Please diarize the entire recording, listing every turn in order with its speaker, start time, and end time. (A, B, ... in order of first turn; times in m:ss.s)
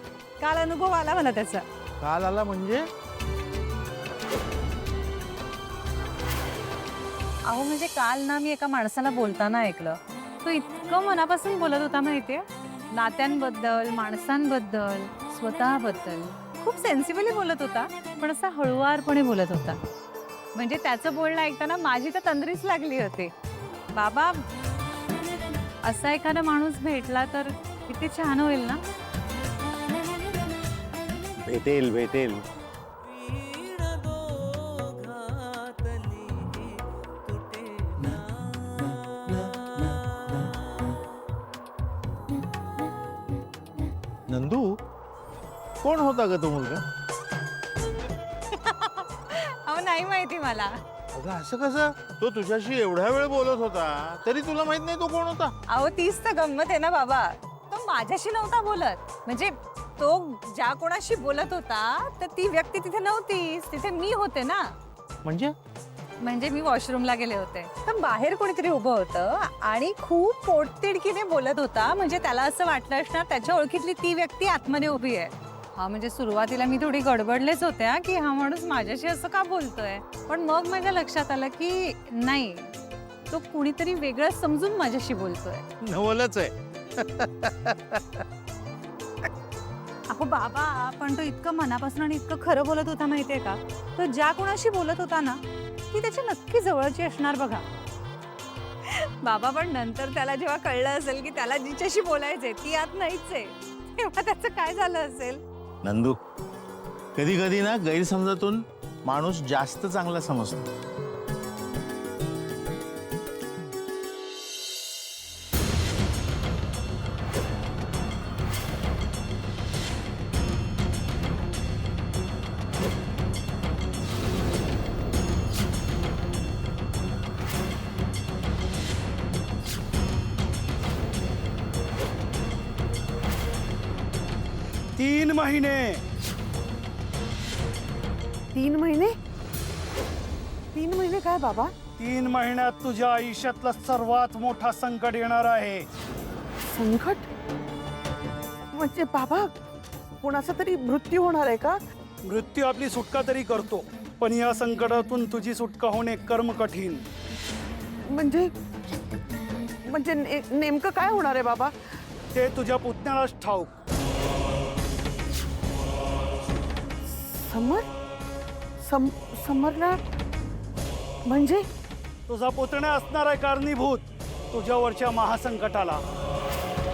0:00.4-0:01.6 A
0:02.0-0:02.8 B
0:07.4-0:19.8 A
0:20.5-0:23.3 A
0:23.9-0:24.4 A
0:25.8-0:28.8 A
0:31.4-0:32.4 B
0:44.3-0:44.8 B
0:45.8-0:46.8 B
0:48.5-0:50.8 A
0:51.1-0:55.5 B
0:55.7-1:04.7 A
1:05.2-1:05.5 B
1:06.2-1:22.7 A
1:23.3-1:25.6 A
1:25.8-1:28.0 B
1:30.1-1:37.6 A
1:38.9-1:45.4 A
1:45.8-1:46.2 B
1:47.1-1:50.7 B
2:15.0-2:16.0 C
2:18.5-2:19.1 D
2:20.7-2:21.7 D
2:22.0-2:25.8 C
2:26.6-2:27.3 D
2:28.7-2:29.5 D
2:30.2-2:31.8 D
2:32.2-2:37.0 C
2:38.0-2:38.5 D
2:39.8-2:41.7 D
2:42.3-2:43.7 C
2:47.1-2:47.8 D
2:48.8-2:50.0 D
2:51.2-2:51.6 D
2:52.3-2:56.0 C